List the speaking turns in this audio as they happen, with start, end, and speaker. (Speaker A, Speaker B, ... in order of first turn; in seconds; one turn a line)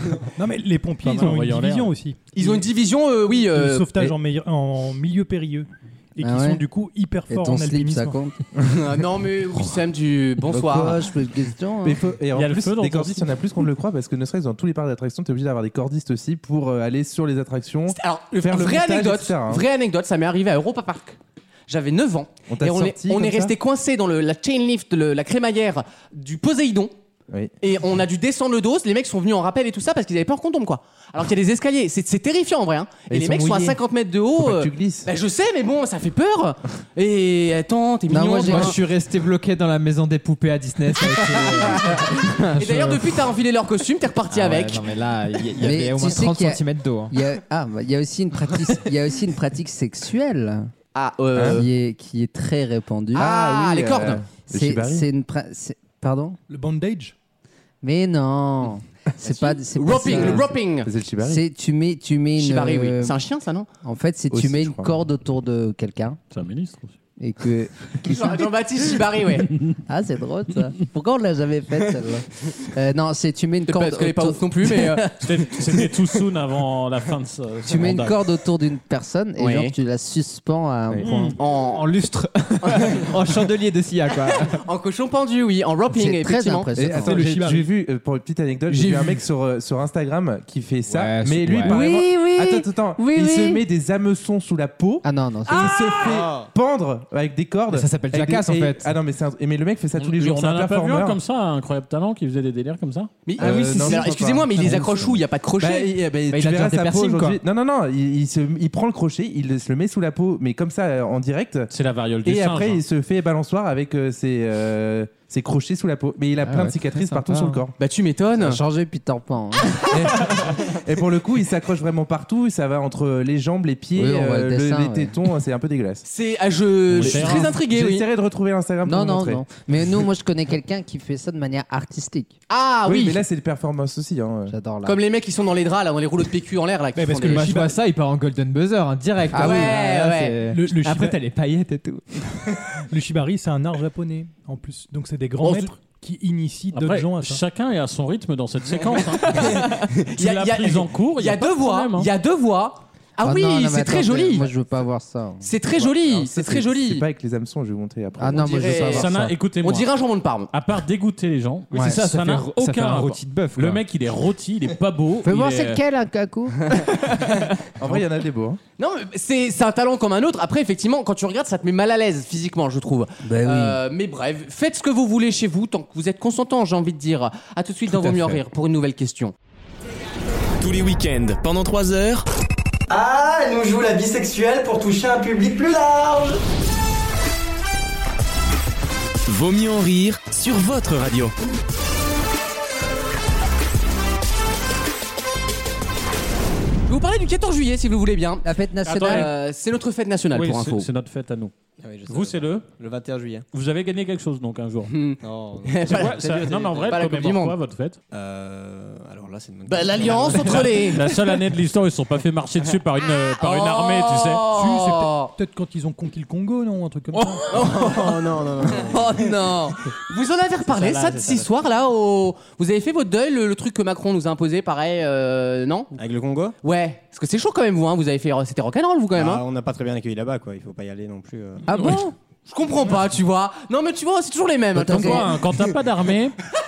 Speaker A: 0.4-2.5
Speaker B: 1.0-1.9
Speaker C: 2.3-3.9
Speaker A: 3.5-8.2
Speaker D: 6.2-6.6
Speaker D: 7.3-8.4
Speaker C: 8.6-11.0
Speaker D: 10.5-12.0
Speaker E: 10.6-10.9
Speaker E: 11.8-19.6
Speaker B: 12.3-13.3
Speaker C: 17.9-21.2
Speaker C: 21.7-26.9
Speaker E: 22.5-23.5
Speaker C: 27.6-38.8
Speaker E: 33.1-33.8
Speaker E: 34.4-35.1
Speaker D: 38.1-38.8
Speaker F: 38.4-43.0
Speaker C: 42.5-44.9
Speaker F: 44.3-47.1
Speaker D: 45.6-50.7
Speaker C: 50.9-51.6
Speaker E: 51.4-51.6
Speaker D: 51.4-53.3
Speaker C: 53.1-54.2
Speaker E: 53.2-55.1
Speaker D: 54.5-56.4
Speaker A: 56.5-57.1
Speaker D: 57.8-60.5
Speaker C: 59.2-60.9
Speaker E: 60.0-61.4
Speaker D: 61.2-63.2
Speaker C: 62.4-63.7
Speaker D: 63.8-66.2
Speaker E: 64.3-64.9
Speaker B: 66.3-67.0
Speaker D: 67.2-68.5
Speaker C: 68.0-69.5
Speaker D: 69.9-75.2
Speaker C: 73.7-75.2
Speaker B: 75.2-78.2
Speaker D: 77.7-81.3
Speaker C: 79.4-79.7
Speaker B: 81.0-81.3
Speaker C: 81.4-81.9
Speaker F: 81.6-84.6
Speaker C: 82.6-83.1
Speaker C: 84.4-86.7
Speaker D: 85.9-87.2
Speaker E: 86.7-101.2
Speaker A: 86.9-87.7
Speaker C: 88.7-89.2
Speaker F: 90.9-91.8
Speaker D: 91.7-93.6
Speaker D: 95.0-95.9
Speaker C: 95.5-96.0
Speaker G: 96.0-96.5
Speaker F: 97.7-98.9
Speaker B: 100.0-103.2
Speaker C: 103.2-105.9
Speaker E: 103.4-111.7
Speaker F: 103.7-104.0
Speaker F: 104.6-105.1
Speaker F: 106.3-107.4
Speaker B: 111.7-112.8
Speaker E: 112.2-117.7
Speaker F: 116.4-117.6
Speaker C: 117.8-118.6
Speaker D: 118.4-119.8
Speaker E: 119.9-126.0
Speaker D: 124.0-125.2
Speaker C: 126.0-128.1
Speaker B: 126.9-127.5
Speaker E: 127.0-129.4
Speaker D: 128.8-132.3
Speaker C: 132.5-133.2
Speaker E: 132.8-134.5
Speaker D: 134.5-135.0
Speaker C: 134.8-137.6
Speaker A: 136.9-137.8
Speaker F: 137.3-142.6
Speaker D: 139.3-139.8
Speaker C: 139.3-140.4
Speaker A: 140.5-141.2
Speaker A: 142.9-147.4
Speaker C: 145.4-145.7
Speaker B: 146.7-152.1
Speaker C: 149.0-154.5
Speaker D: 153.2-155.5
Speaker C: 155.4-157.1
Speaker E: 155.8-158.9
Speaker D: 158.2-159.3
Speaker C: 158.3-160.5
Speaker B: 158.8-159.9
Speaker B: 160.5-165.8
Speaker F: 161.7-163.8
Speaker D: 165.2-166.8
Speaker C: 166.7-167.5
Speaker E: 167.8-168.6
Speaker C: 168.8-179.3
Speaker D: 173.2-173.8
Speaker F: 177.9-178.4
Speaker H: 180.6-182.2
Speaker I: 182.9-186.4
Speaker H: 189.3-191.3
Speaker C: 196.9-198.4
Speaker D: 198.4-199.3
Speaker B: 198.8-199.3
Speaker C: 199.0-200.9
Speaker B: 200.3-201.5
Speaker G: 201.8-203.4
Speaker B: 202.1-202.7
Speaker B: 203.5-204.9
Speaker C: 204.9-206.3
Speaker G: 205.2-207.0
Speaker B: 205.8-208.0
Speaker C: 206.9-207.5
Speaker G: 208.1-210.9
Speaker C: 209.7-211.1
Speaker B: 210.3-214.5
Speaker C: 213.4-215.3
Speaker A: 214.5-217.5
Speaker C: 217.5-219.2
Speaker G: 217.5-219.2
Speaker D: 218.9-219.8
Speaker C: 220.1-225.9
Speaker G: 220.7-221.4
Speaker G: 225.9-226.5
Speaker C: 226.6-229.4
Speaker G: 229.1-231.7
Speaker D: 231.7-232.1
Speaker B: 231.7-232.0
Speaker C: 232.5-235.4
Speaker D: 234.7-235.3
Speaker B: 234.9-236.4